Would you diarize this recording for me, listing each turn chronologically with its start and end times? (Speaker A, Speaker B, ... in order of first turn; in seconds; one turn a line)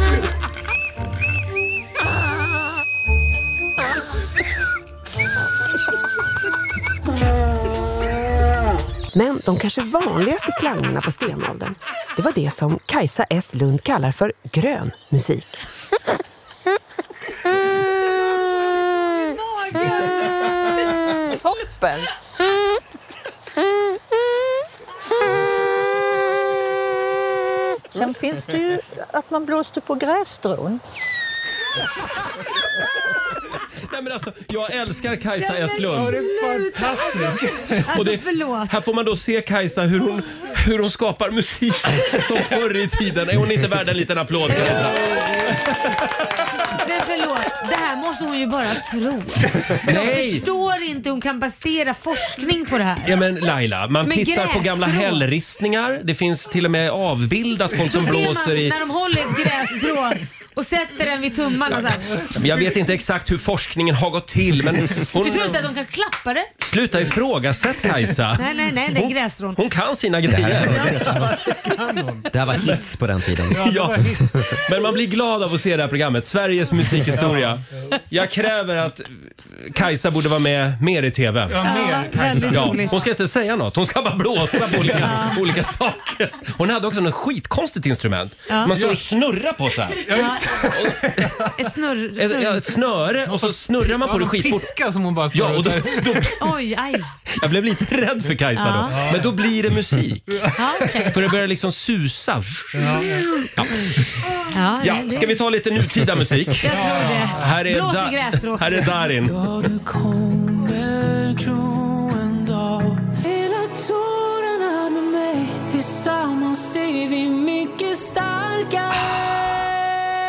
Speaker A: 9.1-15.6
Speaker B: 19.7-20.0
Speaker B: 21.2-22.2
Speaker B: 27.9-30.8
Speaker C: 33.9-36.2
Speaker D: 35.4-38.7
Speaker E: 35.9-37.7
Speaker C: 37.8-45.1
Speaker D: 46.7-53.1
Speaker C: 49.8-50.5
Speaker C: 53.0-58.8
Speaker D: 54.0-55.2
Speaker D: 57.9-62.3
Speaker C: 62.3-65.6
Speaker D: 65.2-66.5
Speaker C: 66.6-71.5
Speaker D: 68.4-69.6
Speaker F: 70.3-71.4
Speaker E: 71.8-72.3
Speaker F: 72.3-73.6
Speaker E: 73.5-74.5
Speaker C: 73.5-81.6
Speaker E: 77.1-77.6
Speaker E: 81.5-83.0
Speaker D: 81.6-83.0
Speaker C: 82.5-91.4
Speaker E: 84.6-85.2
Speaker D: 85.0-85.4
Speaker E: 88.7-89.0
Speaker E: 90.0-91.5
Speaker D: 90.1-90.5
Speaker D: 91.6-92.7
Speaker C: 92.2-94.7
Speaker E: 93.3-96.3
Speaker C: 95.3-96.4
Speaker D: 96.4-97.1
Speaker C: 97.3-100.5
Speaker D: 98.6-99.0
Speaker E: 98.9-99.3
Speaker D: 100.5-101.2
Speaker C: 101.1-104.0
Speaker E: 102.8-103.2
Speaker D: 104.5-105.4
Speaker C: 104.8-109.4
Speaker D: 106.6-108.9
Speaker E: 106.7-107.3
Speaker G: 109.5-118.9